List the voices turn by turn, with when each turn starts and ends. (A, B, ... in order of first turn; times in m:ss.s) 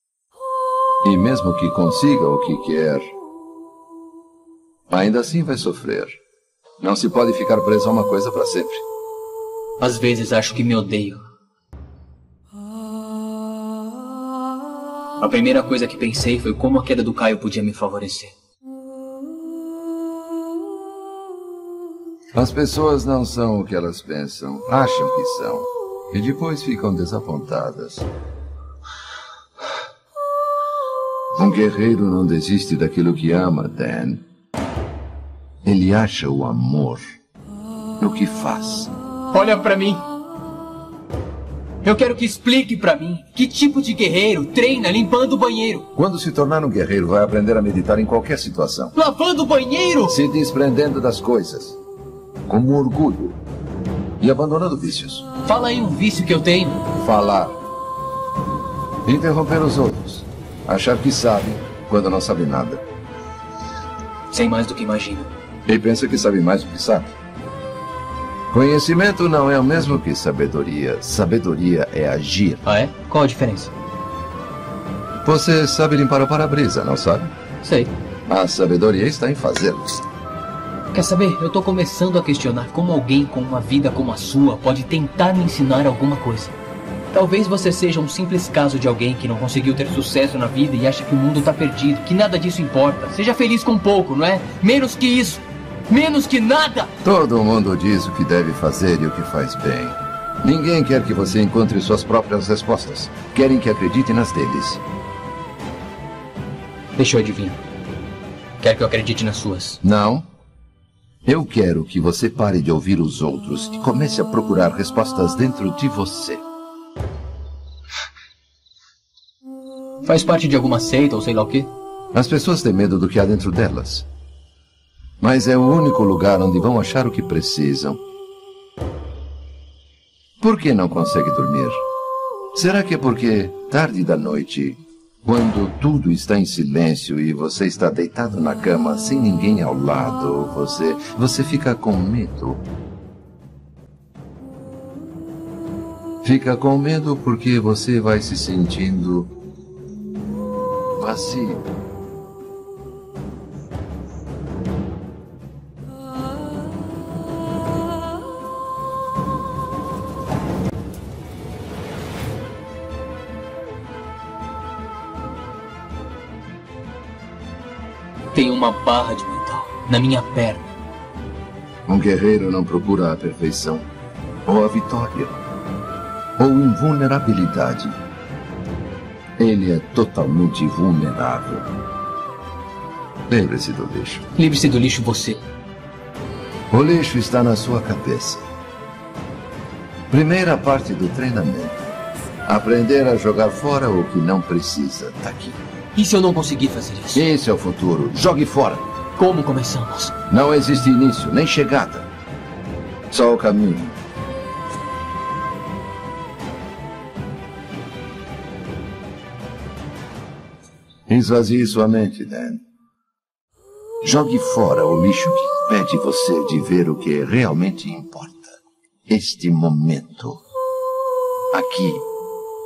0:01.0-0:03.1 A
0:04.9-0:06.2 A
0:06.8-0:08.8 A
0:09.8-0:11.2 B
0:15.2-0:18.3 B
0:22.3-0:28.1 A
0:31.4-0:34.2 A
0:35.6-0:37.2 A
0:38.0-0:38.9 A
0:39.3-0:40.0 B
0:41.8-0:45.9 B
0:46.0-0:48.9 A
0:48.9-0:50.2 B
0:50.1-0:51.8 A
0:52.5-0:53.4 A
0:54.2-0:55.3 A
0:55.4-0:56.8 B
0:57.0-0:57.6 A
0:59.0-1:02.8 A
1:04.3-1:05.3 B
1:05.7-1:07.2 A
1:08.5-1:12.6 A
1:12.6-1:13.7 B
1:15.2-1:17.3 A
1:17.6-1:17.9 B
1:18.3-1:20.0 A
1:20.9-1:26.6 B
1:27.1-1:36.9 B
1:37.0-1:44.8 A
1:47.0-1:47.6 B
1:48.6-1:49.8 B
1:49.8-1:50.2 A
1:51.3-1:56.4 A
2:00.0-2:01.7 B
2:02.1-2:04.1 A
2:05.2-2:08.0 A
2:10.4-2:11.8 A
2:12.6-2:22.6 A
2:26.2-2:29.3 A
2:31.0-2:31.6 A
2:48.3-2:50.7 B
2:51.9-2:53.8 A
2:54.5-2:55.4 A
2:56.4-2:58.0 A
2:59.4-3:01.7 A
3:03.3-3:04.2 A
3:04.4-3:05.4 B
3:06.7-3:08.5 A
3:10.1-3:11.9 A
3:12.5-3:15.6 A
3:16.0-3:17.3 B
3:17.2-3:18.8 A
3:19.2-3:20.1 B
3:20.3-3:22.1 A
3:23.1-3:24.0 A
3:31.1-3:32.6 A
3:34.0-3:40.4 A
3:41.5-3:42.1 A